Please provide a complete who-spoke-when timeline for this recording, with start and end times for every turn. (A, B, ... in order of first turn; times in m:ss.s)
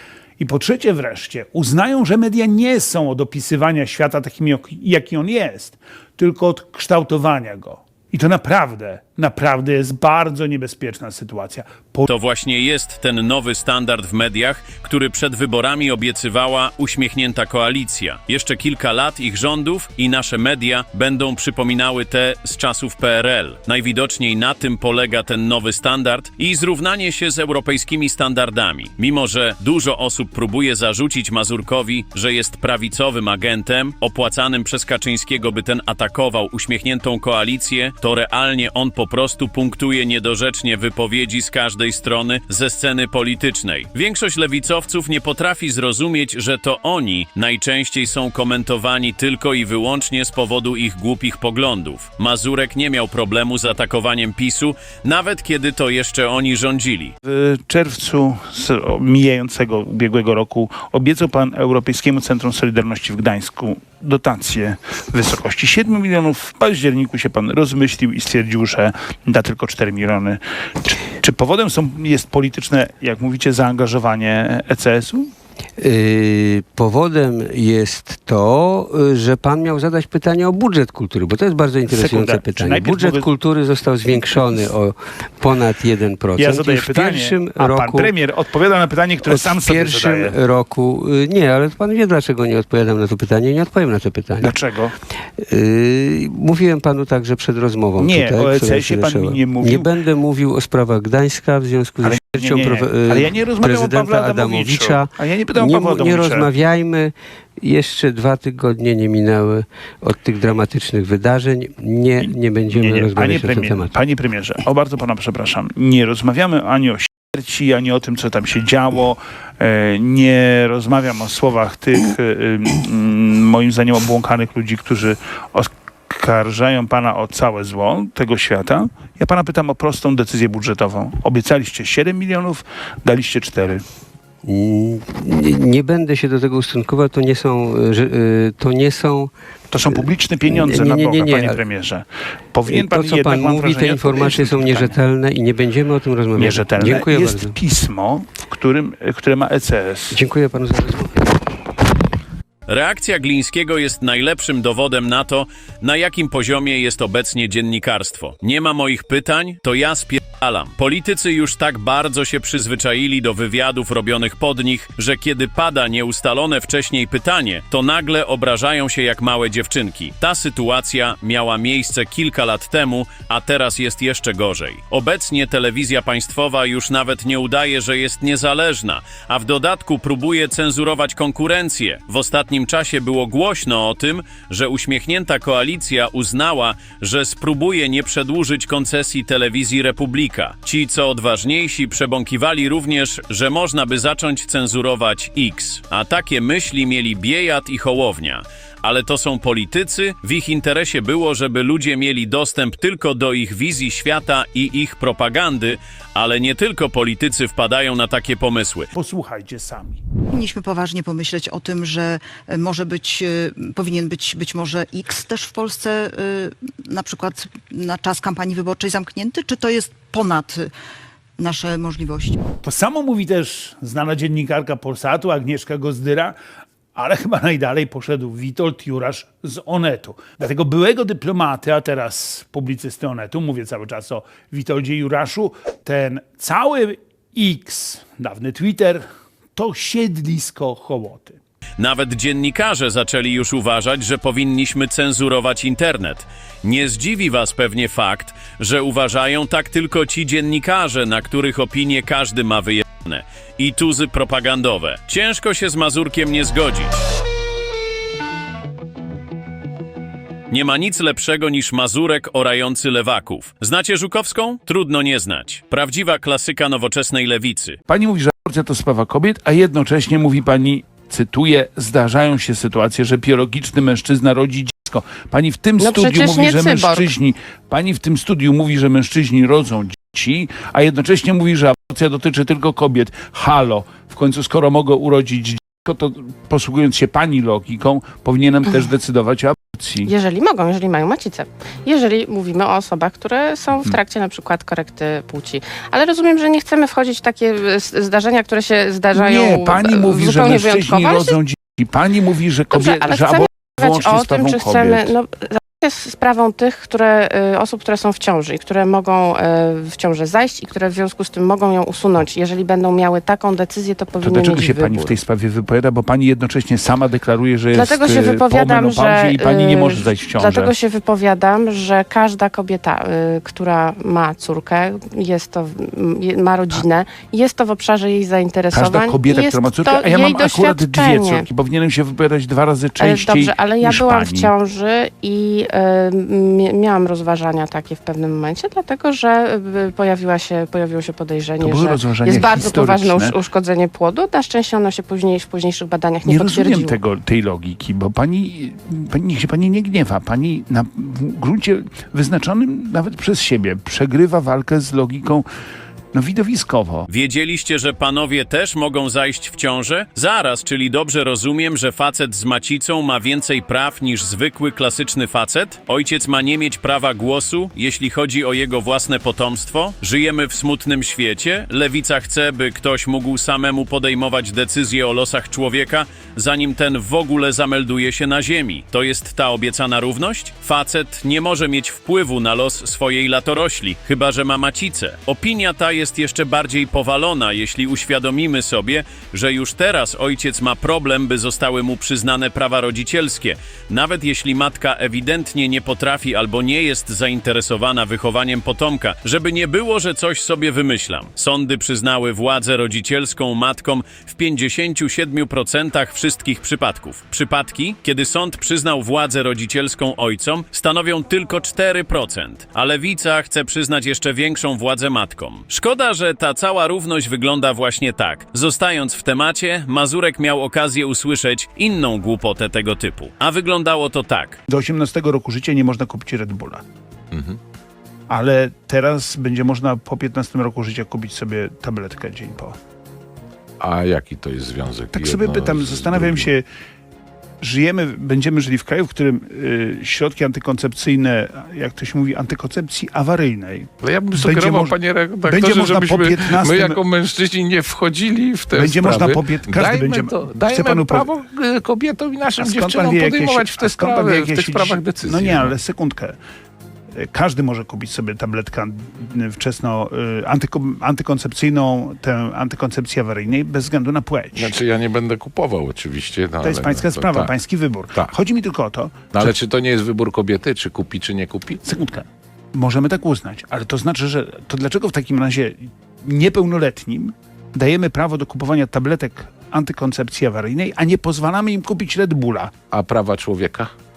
0:00.4-0:12.1 A
0:12.1-0:57.1 B
0:57.3-1:15.3 A
1:15.8-1:28.1 C
1:21.9-1:23.3 A
1:26.4-1:30.4 A
1:29.2-1:34.6 C
1:34.4-1:34.9 A
1:35.4-1:53.9 C
1:38.0-1:39.9 A
1:42.0-1:46.5 A
1:52.7-2:13.8 A
2:14.4-2:19.3 C
2:19.7-2:25.0 A
2:19.9-2:21.6 C
2:22.7-2:27.6 C
2:26.4-2:30.2 A
2:30.1-2:31.3 C
2:32.7-3:28.9 B
3:28.9-3:30.0 A
3:30.4-3:30.6 D
3:31.3-3:33.6 D
3:35.4-3:35.8 D
3:36.9-3:40.6 D
3:41.5-3:42.4 D
3:42.6-3:46.4 A
3:47.0-3:59.0 A
3:59.6-4:01.4 A
4:01.8-4:17.0 B
4:20.5-4:27.8 B
4:27.9-4:50.1 A
4:35.8-4:37.1 E
4:50.0-5:01.4 E
4:59.1-5:05.2 A
5:02.7-5:15.2 E
5:14.2-5:20.7 A
5:17.7-5:31.4 E
5:28.7-5:34.5 A
5:33.0-5:47.0 E
5:41.6-5:43.4 A
5:46.2-5:55.5 A
5:56.1-5:57.1 A
5:57.1-7:04.6 B
7:04.7-7:06.8 A
7:07.3-7:07.6 F
7:08.3-7:12.8 A
7:13.8-7:16.5 F
7:15.1-7:16.7 A
7:17.6-7:27.0 A
7:24.0-7:35.8 F
7:28.7-7:31.3 A
7:32.6-7:36.4 A
7:37.2-7:44.8 A
7:44.6-7:47.6 F
7:46.6-7:49.5 A
7:49.3-7:51.8 F
7:51.8-8:02.7 A
8:02.9-8:03.9 F